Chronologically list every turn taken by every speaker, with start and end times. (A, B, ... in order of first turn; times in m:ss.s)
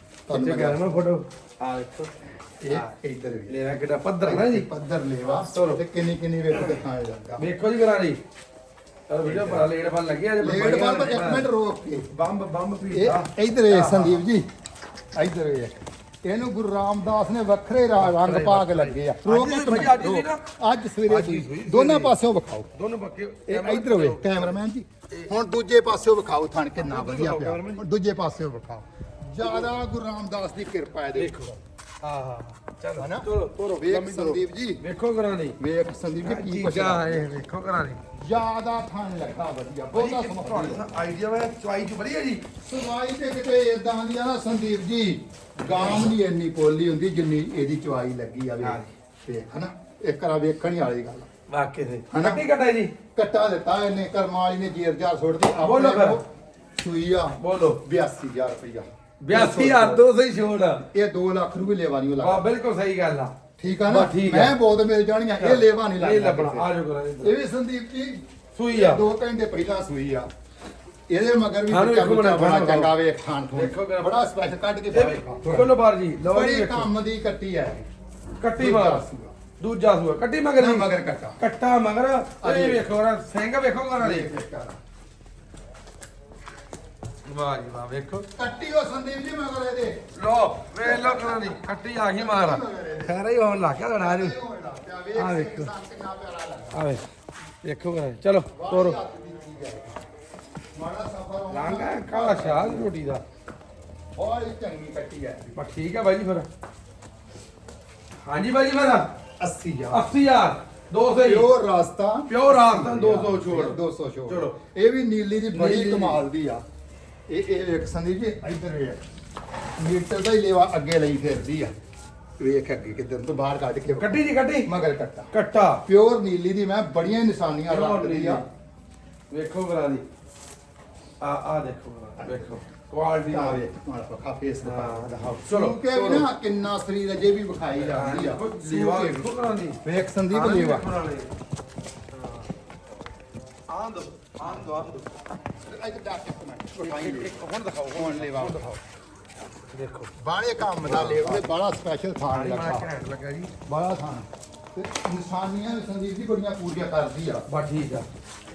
0:00.3-0:01.0 A
0:00.3-0:02.1 B
0:02.6-0:03.6 A
0:03.5-0:04.7 B
0:04.2-0:07.5 A
0:05.3-0:05.8 B
0:07.4-0:08.2 B
0:09.1-0:11.5 B
0:09.2-0:09.7 A
0:10.4-0:12.1 A
0:12.1-0:14.2 B
0:12.9-0:14.5 A
0:15.1-0:22.7 A
0:18.0-0:20.4 B
0:21.0-0:22.1 B
0:22.7-0:24.6 B
0:23.5-0:31.5 A
0:26.8-0:27.8 B
0:29.4-0:29.7 B
0:31.1-0:35.6 B
0:33.0-0:34.8 A
0:35.6-0:37.2 A
0:36.2-0:38.0 B
0:38.2-0:40.8 A
0:39.9-0:42.4 B
0:42.6-0:51.3 A
0:45.6-0:46.1 B
0:48.6-0:48.9 B
0:51.5-0:52.9 B
0:52.1-0:52.4 A
0:53.1-0:56.2 A
0:55.6-0:56.2 B
0:56.8-1:00.0 A
0:57.4-0:57.8 B
0:59.2-1:00.8 B
1:00.9-1:02.4 A
1:02.2-1:03.3 B
1:03.6-1:06.7 A
1:03.8-1:04.6 B
1:05.4-1:07.3 B
1:07.2-1:10.3 A
1:08.5-1:09.0 B
1:11.1-1:17.9 A
1:11.7-1:12.9 B
1:13.5-1:14.1 B
1:14.9-1:16.9 B
1:18.4-1:19.0 B
1:18.6-1:19.3 A
1:19.6-1:24.3 B
1:20.6-1:21.4 A
1:22.4-1:22.8 A
1:24.0-1:24.8 A
1:27.2-1:28.3 B
1:28.3-1:30.0 A
1:30.1-1:34.4 B
1:30.8-1:31.6 A
1:32.1-1:33.2 A
1:33.9-1:36.8 A
1:35.2-1:35.7 B
1:36.7-1:37.0 B
1:37.6-1:39.0 B
1:38.5-1:40.0 A
1:40.7-1:42.9 A
1:41.5-1:43.2 B
1:44.1-1:45.6 A
1:45.6-1:46.5 B
1:48.2-1:49.1 B
1:49.4-1:50.1 A
1:49.9-1:51.5 B
1:51.2-1:56.6 A
1:52.3-1:54.5 B
1:55.5-1:56.2 B
1:57.3-1:59.0 A
1:59.8-2:01.7 A
2:02.4-2:05.3 A
2:04.0-2:04.7 B
2:05.3-2:05.8 B
2:05.8-2:08.4 A
2:07.7-2:08.4 B
2:09.3-2:10.0 B
2:11.2-2:13.6 B
2:12.2-2:12.6 A
2:13.3-2:20.9 A
2:14.6-2:16.3 B
2:17.8-2:19.8 B
2:20.3-2:21.3 B
2:22.1-2:22.5 B
2:23.7-2:25.1 B
2:25.5-2:27.4 A
2:26.8-2:28.8 B
2:27.9-2:28.7 A
2:29.7-2:30.1 B
2:30.2-2:32.9 A
2:30.8-2:31.5 B
2:32.3-2:33.5 B
2:33.6-2:37.4 A
2:37.5-2:38.1 B